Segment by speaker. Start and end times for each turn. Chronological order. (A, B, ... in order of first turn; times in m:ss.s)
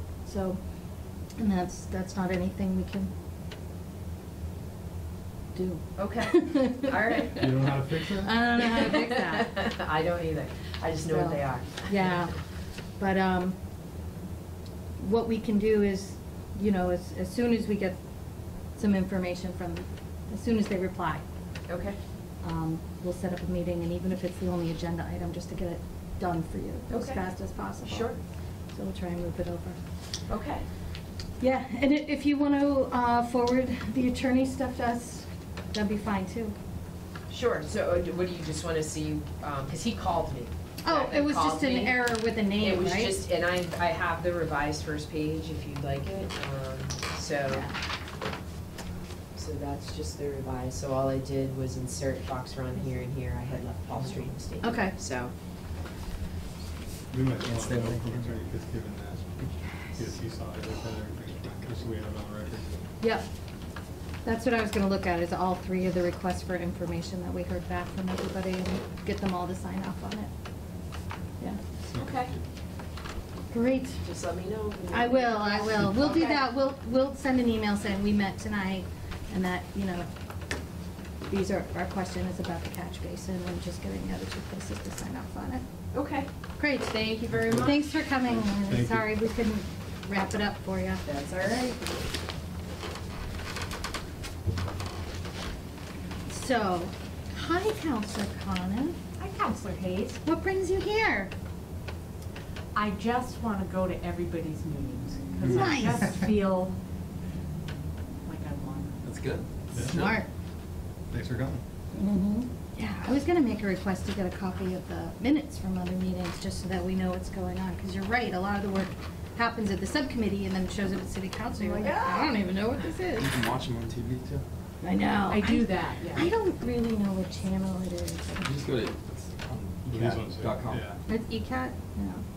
0:00.3-0:00.6 A
0:01.4-0:03.1 A
0:05.5-0:07.5 A
0:06.0-0:07.7 B
0:07.4-0:08.4 C
0:08.2-0:09.7 A
0:08.7-0:12.3 B
0:11.0-0:12.4 A
0:13.0-0:13.6 A
0:15.0-0:18.0 A
0:18.8-0:21.2 A
0:21.7-0:22.0 B
0:22.4-0:28.1 A
0:26.9-0:27.2 B
0:27.8-0:28.2 B
0:28.7-0:29.8 A
0:30.3-0:30.7 B
0:31.4-0:36.6 A
0:37.3-0:47.7 B
0:40.8-0:43.2 A
0:47.5-0:47.8 A
0:49.3-0:55.3 B
0:54.6-0:55.0 A
0:57.1-1:02.8 C
0:57.4-0:58.5 D
0:59.4-1:00.0 D
1:03.0-1:03.3 A
1:04.2-1:10.3 A
1:11.9-1:12.2 C
1:12.0-1:12.3 B
1:13.5-1:14.0 A
1:14.0-1:16.4 B
1:14.9-1:20.1 A
1:21.3-1:25.6 A
1:25.9-1:26.3 B
1:26.6-1:31.0 A
1:27.3-1:27.8 C
1:28.4-1:29.1 C
1:31.0-1:31.9 B
1:36.3-1:39.0 A
1:39.2-1:40.2 E
1:40.2-1:41.3 A
1:42.7-1:46.8 E
1:45.4-1:45.8 D
1:45.4-1:46.1 A
1:48.2-1:49.0 E
1:49.0-1:50.2 D
1:49.7-1:50.1 C
1:49.8-1:50.3 A
1:51.1-1:51.6 C
1:51.9-2:03.3 A
2:01.6-2:02.3 B
2:03.2-2:04.4 D
2:04.8-2:08.5 A
2:05.3-2:06.3 E
2:08.4-2:10.8 D
2:09.9-2:11.0 C
2:11.1-2:12.2 A